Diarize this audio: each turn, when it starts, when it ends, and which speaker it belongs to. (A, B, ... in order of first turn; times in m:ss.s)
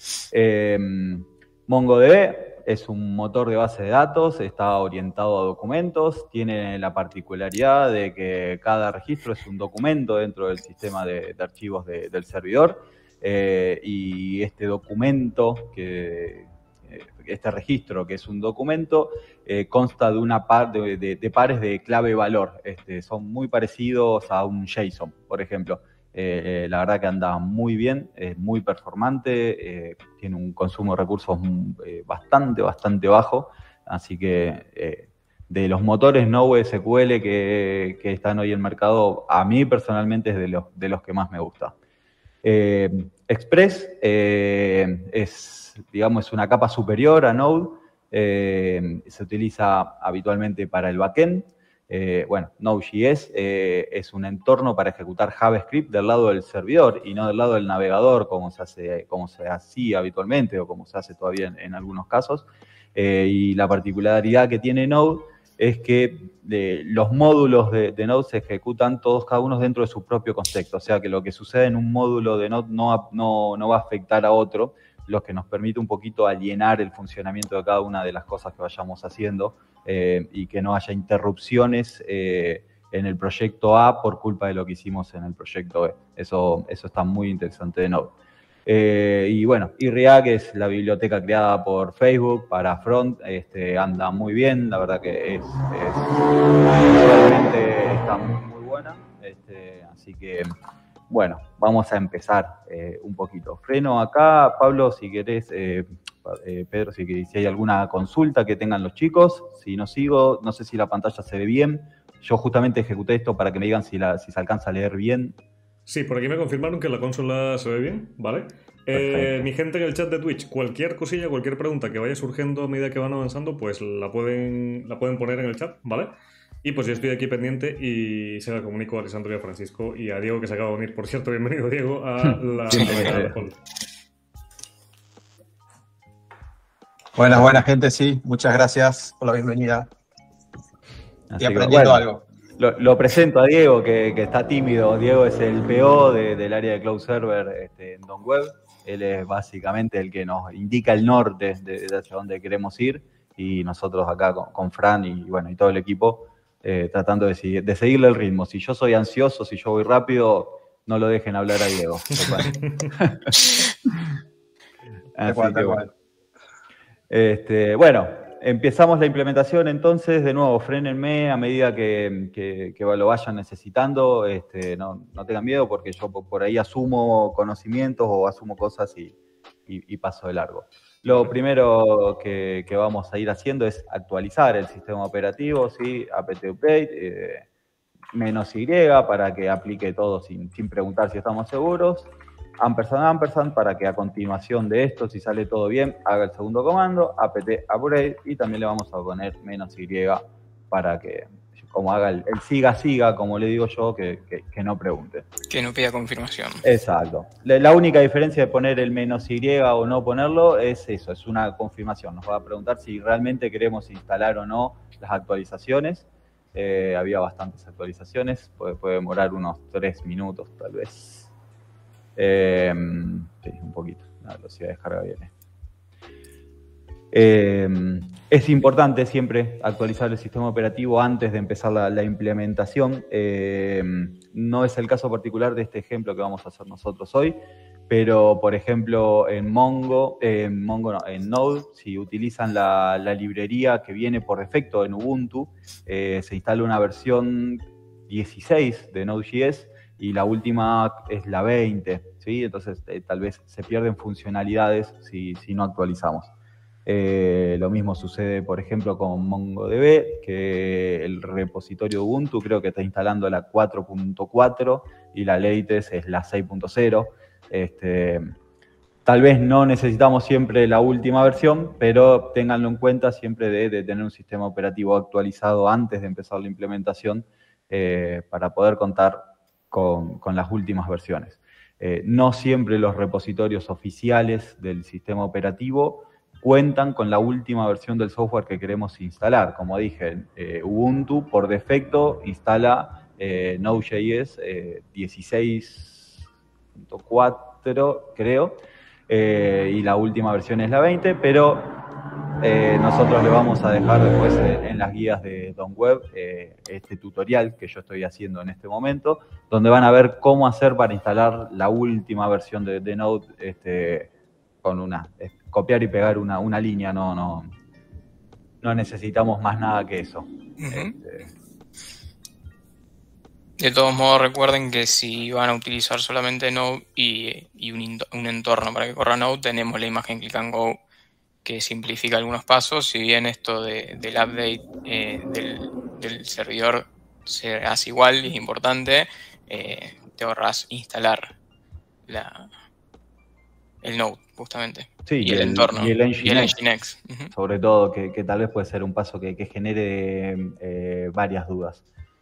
0:00.3-0:41.7 A
0:42.4-1:40.5 A
1:41.1-1:55.4 A
1:55.8-2:13.6 B
1:58.9-1:59.5 A
2:12.3-2:13.4 A
2:12.7-2:13.0 C
2:17.2-2:19.9 D
2:21.3-2:22.0 A
2:21.4-2:22.2 D
2:22.6-2:44.1 A
2:45.2-2:45.9 A
2:45.2-2:45.9 D
2:47.1-2:59.1 A
2:59.7-3:07.4 A
3:08.1-3:25.3 A
3:25.5-3:26.6 C
3:26.6-3:41.3 A
3:42.2-3:45.3 A
3:47.1-3:57.4 A
3:57.9-4:16.3 A
4:16.8-4:28.3 A
4:29.0-4:56.2 A
4:56.8-5:01.7 A
5:02.4-5:14.1 A
5:14.6-5:17.5 A
5:18.6-5:21.3 A
5:20.6-5:20.9 C
5:23.6-5:30.8 C
5:31.4-5:41.3 C
5:42.0-5:42.5 C
5:43.8-5:47.3 C
5:45.1-5:46.6 A
5:47.3-5:51.8 A